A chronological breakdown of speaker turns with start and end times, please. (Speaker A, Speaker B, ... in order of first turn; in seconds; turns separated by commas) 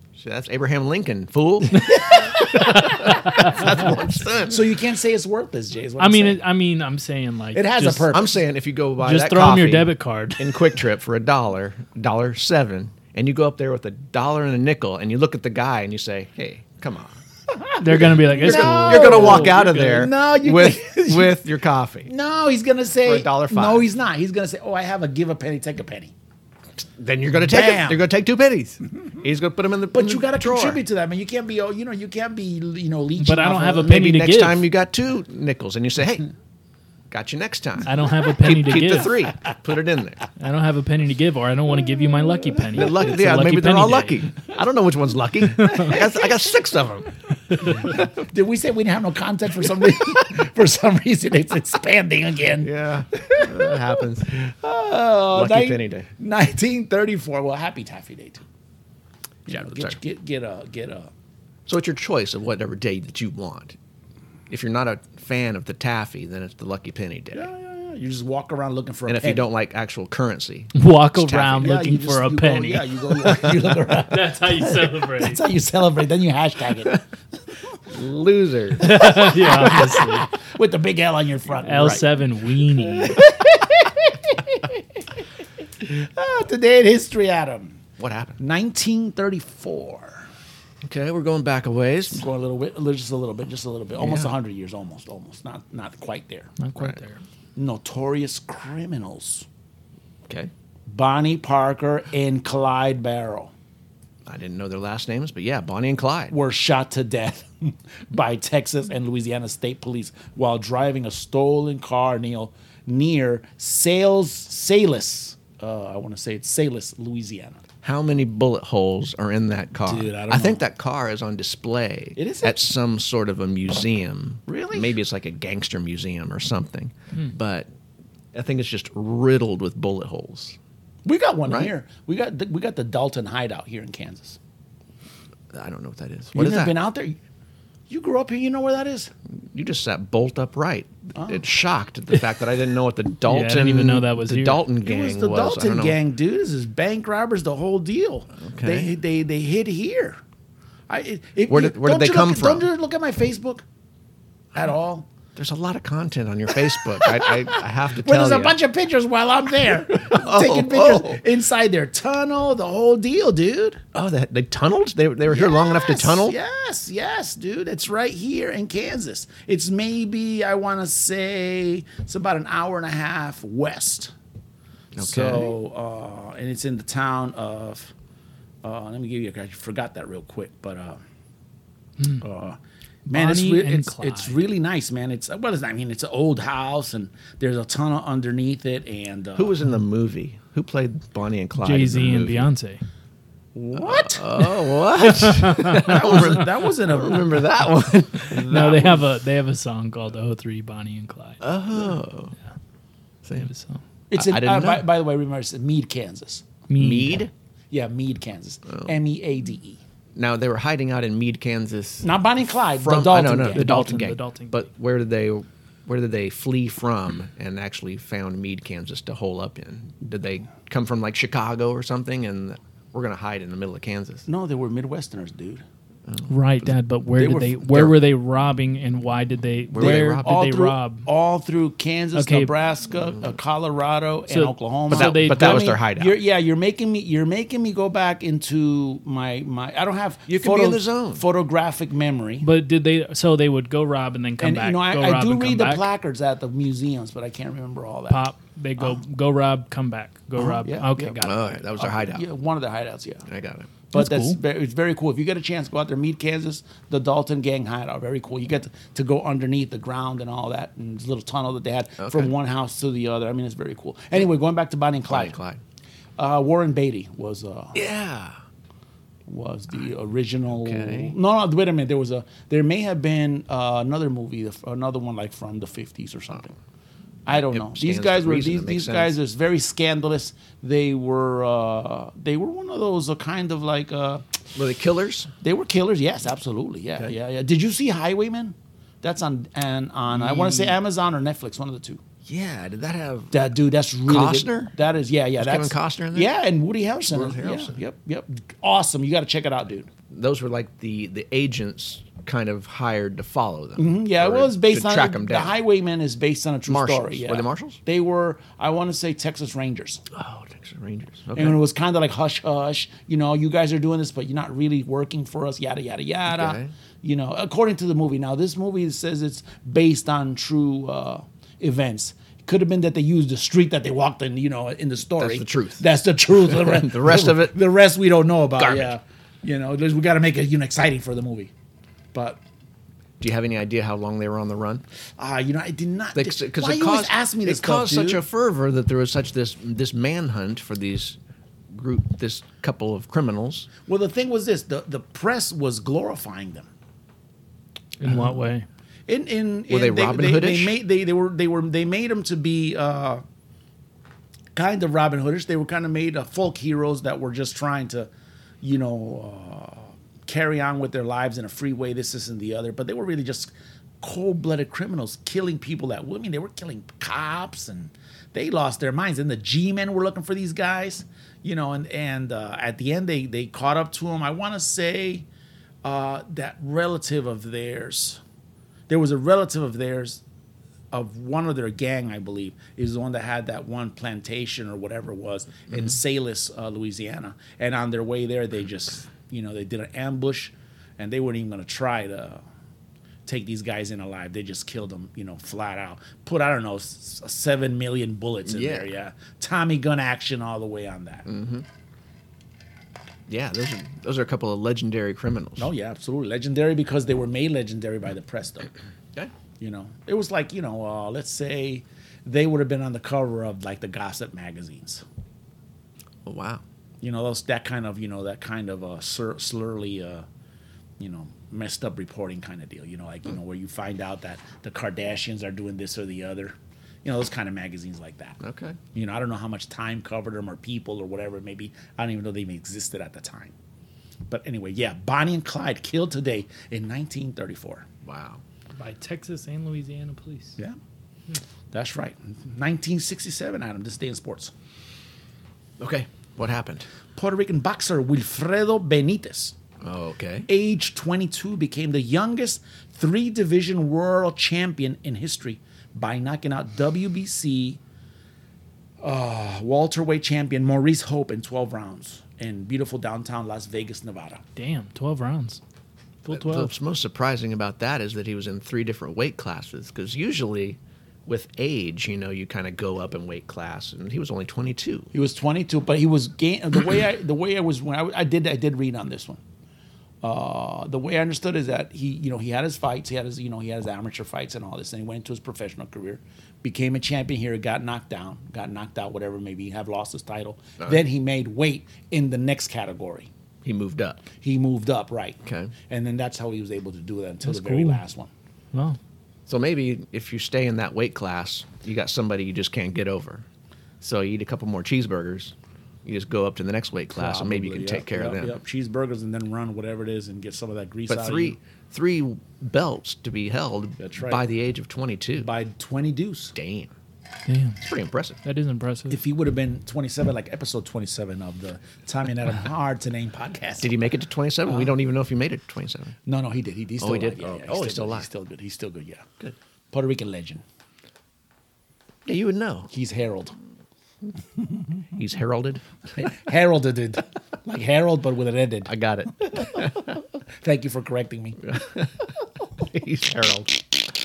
Speaker A: 0.1-4.8, Speaker B: 1.8-3.6, Speaker C: 3.0-3.7, Speaker B: 4.4-6.4, Speaker C: 6.0-8.1, Speaker B: 7.5-8.4, Speaker A: 8.1-17.2, Speaker C: 9.0-10.8, Speaker B: 17.5-21.4, Speaker C: 17.8-19.8, Speaker A: 17.9-22.1, Speaker B: 22.0-26.1, Speaker A: 23.0-23.8, Speaker A: 26.9-30.8, Speaker B: 27.4-28.0, Speaker B: 29.9-34.0, Speaker C: 33.2-34.7, Speaker A: 33.8-36.3, Speaker A: 37.1-40.2, Speaker C: 37.8-39.2, Speaker C: 40.4-44.2, Speaker A: 42.7-47.1, Speaker C: 45.5-46.0, Speaker C: 47.5-47.8, Speaker A: 47.6-48.1, Speaker B: 47.7-58.4, Speaker A: 52.6-54.4, Speaker A: 55.3-56.1, Speaker B: 59.5-61.1, Speaker A: 59.5-60.0, Speaker A: 61.7-63.8, Speaker A: 64.5-67.5, Speaker B: 67.3-69.5, Speaker A: 69.0-71.8, Speaker C: 70.7-73.4, Speaker B: 71.6-77.0, Speaker C: 74.1-75.4, Speaker A: 77.9-79.2, Speaker C: 78.8-80.3, Speaker B: 79.2-82.1, Speaker A: 81.5-82.0, Speaker C: 81.6-83.2, Speaker B: 82.9-85.0, Speaker B: 85.8-87.8, Speaker A: 88.0-88.4, Speaker B: 88.4-90.3, Speaker A: 90.8-92.3, Speaker B: 92.1-96.5, Speaker A: 94.0-94.3, Speaker C: 96.6-97.2, Speaker B: 97.5-99.5, Speaker B: 100.9-103.5, Speaker A: 104.2-106.3, Speaker B: 106.3-117.6, Speaker A: 117.8-127.7, Speaker B: 119.8-120.6, Speaker B: 122.2-122.6, Speaker B: 124.5-124.9, Speaker A: 128.3-130.6, Speaker B: 131.0-134.4, Speaker A: 131.4-131.7, Speaker A: 135.5-136.8, Speaker B: 136.3-137.2, Speaker B: 137.9-139.1, Speaker A: 139.5-146.0, Speaker B: 141.2-141.4, Speaker C: 143.3-144.7, Speaker B: 144.8-150.2, Speaker A: 148.4-148.9, Speaker B: 150.9-153.6, Speaker A: 151.5-152.7, Speaker B: 154.5-155.1, Speaker A: 155.3-158.6, Speaker B: 156.5-163.8, Speaker A: 159.7-161.2, Speaker A: 163.9-166.4, Speaker B: 165.3-174.1, Speaker A: 174.9-175.6, Speaker B: 175.0-177.9, Speaker B: 178.6-181.0, Speaker C: 182.0-182.2, Speaker B: 182.2-182.6, Speaker C: 183.1-184.5, Speaker B: 183.1-189.5, Speaker A: 189.3-192.5, Speaker C: 191.6-192.8, Speaker B: 193.5-194.4, Speaker A: 193.7-199.0, Speaker C: 195.0-196.3, Speaker B: 195.8-197.5, Speaker C: 198.2-201.4, Speaker B: 198.3-199.0, Speaker A: 201.4-202.3, Speaker A: 203.2-203.5, Speaker C: 203.3-203.8, Speaker B: 204.1-206.4, Speaker A: 204.1-204.8, Speaker C: 206.7-207.2, Speaker A: 206.8-207.3, Speaker B: 207.7-209.8, Speaker A: 208.7-208.9, Speaker A: 210.1-212.1, Speaker B: 212.0-213.7, Speaker A: 212.7-224.2, Speaker C: 213.5-214.7, Speaker B: 224.2-225.6, Speaker A: 226.1-226.7, Speaker C: 226.3-231.1, Speaker B: 227.2-227.9, Speaker A: 229.7-230.4, Speaker B: 229.8-242.5, Speaker C: 232.1-232.5, Speaker C: 234.3-235.8, Speaker A: 234.9-236.2, Speaker A: 240.3-241.2, Speaker C: 242.4-245.9, Speaker B: 244.4-248.3, Speaker C: 248.1-251.6, Speaker B: 250.4-251.2, Speaker A: 251.2-252.2, Speaker B: 251.7-253.2, Speaker A: 253.2-253.7, Speaker B: 253.9-265.4, Speaker C: 253.9-254.4, Speaker A: 262.0-262.3, Speaker A: 265.1-265.6, Speaker B: 266.2-267.8, Speaker A: 267.7-268.4, Speaker B: 269.3-276.5, Speaker A: 270.5-271.1, Speaker B: 277.2-284.3, Speaker A: 277.3-279.1, Speaker A: 284.5-285.3, Speaker B: 285.4-292.0, Speaker A: 290.1-290.8, Speaker A: 292.2-293.5, Speaker B: 293.3-299.9, Speaker A: 294.0-294.7, Speaker A: 295.4-296.3, Speaker A: 297.1-297.8, Speaker A: 300.1-305.6, Speaker B: 303.8-310.0, Speaker A: 306.7-307.8, Speaker A: 310.1-311.6, Speaker B: 311.3-331.5, Speaker A: 316.3-316.7, Speaker A: 325.2-327.6, Speaker A: 328.6-328.9, Speaker B: 332.1-332.4, Speaker A: 333.2-334.8, Speaker B: 335.2-338.2, Speaker A: 336.1-341.2, Speaker A: 341.7-343.7, Speaker B: 343.9-346.7, Speaker C: 348.0-348.7, Speaker B: 349.1-353.2, Speaker A: 349.7-350.8, Speaker B: 354.5-358.1, Speaker B: 358.6-375.2, Speaker B: 375.8-378.2, Speaker B: 378.9-380.2, Speaker B: 380.9-392.4, Speaker A: 385.7-386.0, Speaker B: 393.2-401.3, Speaker A: 398.4-398.9, Speaker A: 401.2-401.6, Speaker A: 403.3-405.7, Speaker B: 405.6-408.7, Speaker B: 409.6-415.0, Speaker A: 416.2-416.6, Speaker B: 417.0-420.2, Speaker B: 421.0-428.4, Speaker A: 428.4-428.8, Speaker B: 428.9-433.5, Speaker B: 434.3-437.9, Speaker A: 438.0-438.4, Speaker C: 438.7-440.6, Speaker B: 441.7-444.5, Speaker A: 445.8-446.9, Speaker B: 447.1-449.6, Speaker A: 449.8-450.5, Speaker B: 450.5-457.8, Speaker B: 459.0-464.4, Speaker C: 464.6-465.6, Speaker C: 466.2-466.7, Speaker A: 466.3-475.1, Speaker B: 475.1-479.4, Speaker B: 480.2-493.3, Speaker A: 493.6-494.2, Speaker B: 494.4-498.3, Speaker A: 495.4-495.7, Speaker C: 497.4-498.0, Speaker C: 498.7-499.0, Speaker A: 499.5-503.4, Speaker A: 504.0-505.5, Speaker A: 506.0-508.6, Speaker B: 507.1-511.6, Speaker A: 511.1-515.5, Speaker B: 514.0-514.5, Speaker B: 515.4-516.5, Speaker A: 516.5-516.9, Speaker C: 517.5-517.8, Speaker A: 517.8-518.4, Speaker C: 518.4-519.2, Speaker B: 519.1-523.9, Speaker A: 523.8-526.1, Speaker B: 524.6-524.9, Speaker B: 526.2-529.2, Speaker A: 527.0-528.3, Speaker B: 529.9-530.6, Speaker A: 532.2-532.9, Speaker B: 532.9-533.5, Speaker A: 535.1-535.8, Speaker B: 536.2-538.9, Speaker A: 538.8-540.1, Speaker B: 539.4-539.9, Speaker B: 540.6-541.6, Speaker A: 541.6-544.1